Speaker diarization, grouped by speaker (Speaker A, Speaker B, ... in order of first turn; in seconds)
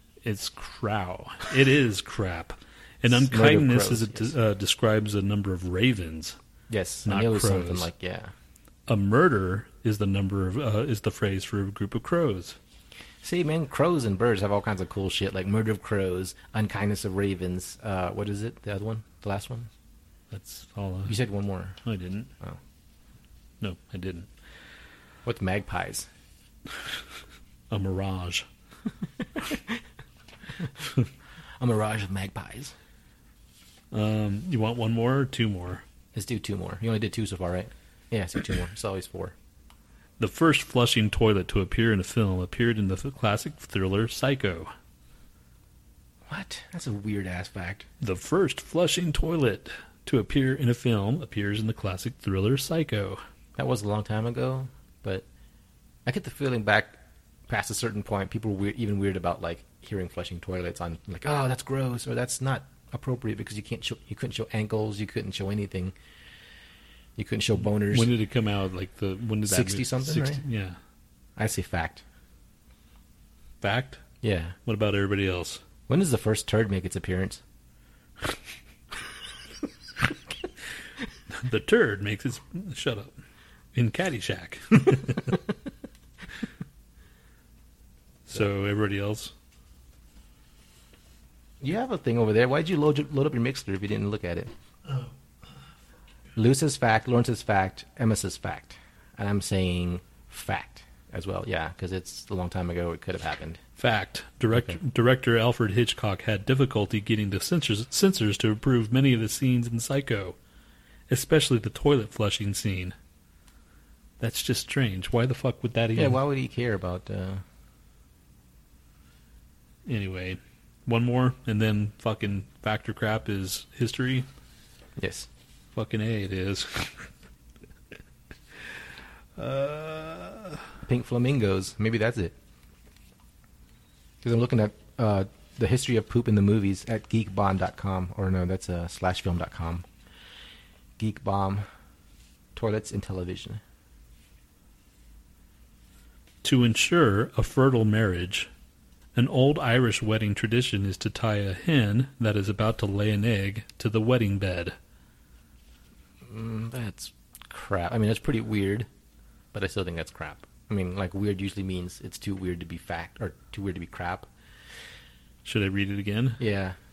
Speaker A: 0.2-6.4, 7.0-7.9, 8.9-12.6, 20.3-21.1, 21.8-22.3, 23.6-24.3, 27.7-28.4, 33.9-35.8, 40.2-44.7, 48.0-53.2, 67.6-70.8, 73.6-74.0, 74.6-75.6, 81.3-83.2, 83.7-85.4, 88.3-89.3, 103.8-110.4, 111.1-113.0, 114.2-116.2, 119.8-124.3, 125.7-127.1, 129.3-130.6, 146.4-148.5, 149.1-154.8, 165.4-166.4
Speaker B: 3.0-4.3, 6.7-8.3, 13.2-19.7, 21.1-21.8, 25.2-26.1, 29.4-29.8, 31.6-32.7, 36.1-39.3, 46.3-47.9, 53.6-55.2, 56.0-65.9, 67.2-68.1, 69.5-70.4, 71.4-72.0, 74.2-74.5, 75.9-77.4, 91.6-94.5, 96.3-103.6, 115.9-117.4, 125.0-125.3, 130.9-132.3, 134.2-139.8, 141.0-141.6, 142.5-143.6, 156.2-158.9, 159.5-164.3, 166.4-166.8